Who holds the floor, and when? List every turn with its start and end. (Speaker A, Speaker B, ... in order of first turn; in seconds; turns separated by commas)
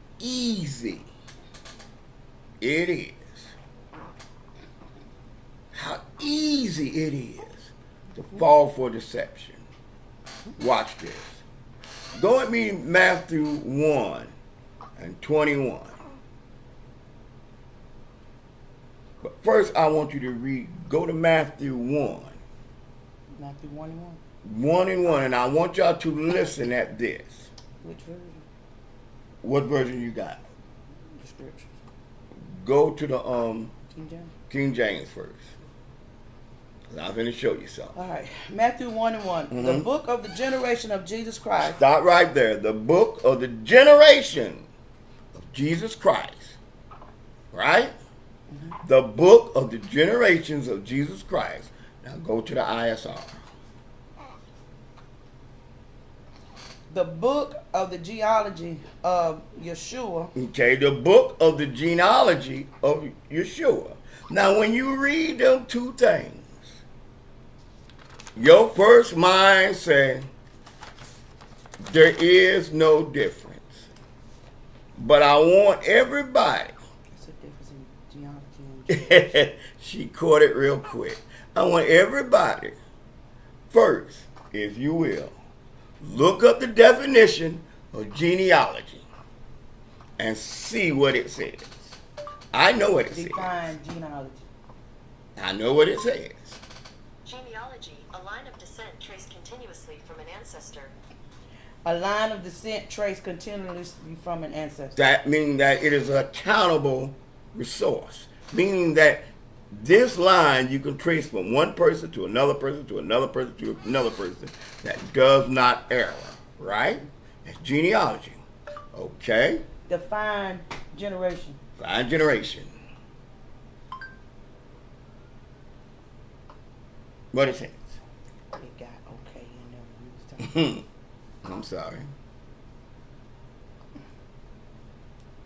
Speaker A: 0.2-1.1, Speaker A: 2.6-3.5, Speaker A: 5.7-9.6, Speaker A: 10.6-11.4, Speaker A: 12.2-14.3, Speaker A: 15.0-16.0, Speaker A: 19.2-22.4, Speaker B: 23.3-24.2, Speaker A: 24.4-27.5, Speaker B: 27.8-28.4, Speaker A: 29.4-30.4, Speaker B: 31.0-31.8, Speaker A: 32.4-33.7, Speaker B: 33.9-34.3, Speaker A: 34.5-35.5, Speaker A: 36.9-38.0, Speaker B: 37.9-41.8, Speaker A: 39.5-39.9, Speaker A: 41.6-44.6, Speaker A: 45.3-46.6, Speaker A: 47.5-47.9, Speaker B: 48.5-48.8, Speaker A: 48.8-53.4, Speaker B: 56.9-60.3, Speaker A: 60.3-66.8, Speaker A: 68.3-70.3, Speaker A: 71.8-73.9, Speaker A: 75.0-76.7, Speaker B: 77.1-79.2, Speaker A: 78.9-82.8, Speaker A: 83.7-85.3, Speaker A: 86.0-89.0, Speaker A: 90.2-92.0, Speaker A: 92.5-93.6, Speaker B: 93.1-94.5, Speaker A: 95.3-96.6, Speaker C: 97.2-100.9, Speaker B: 101.8-104.9, Speaker A: 105.0-118.4, Speaker A: 118.9-119.7, Speaker B: 119.9-121.6, Speaker A: 121.8-122.7, Speaker A: 127.3-128.0, Speaker B: 128.5-130.6, Speaker A: 130.4-130.8, Speaker A: 131.4-132.1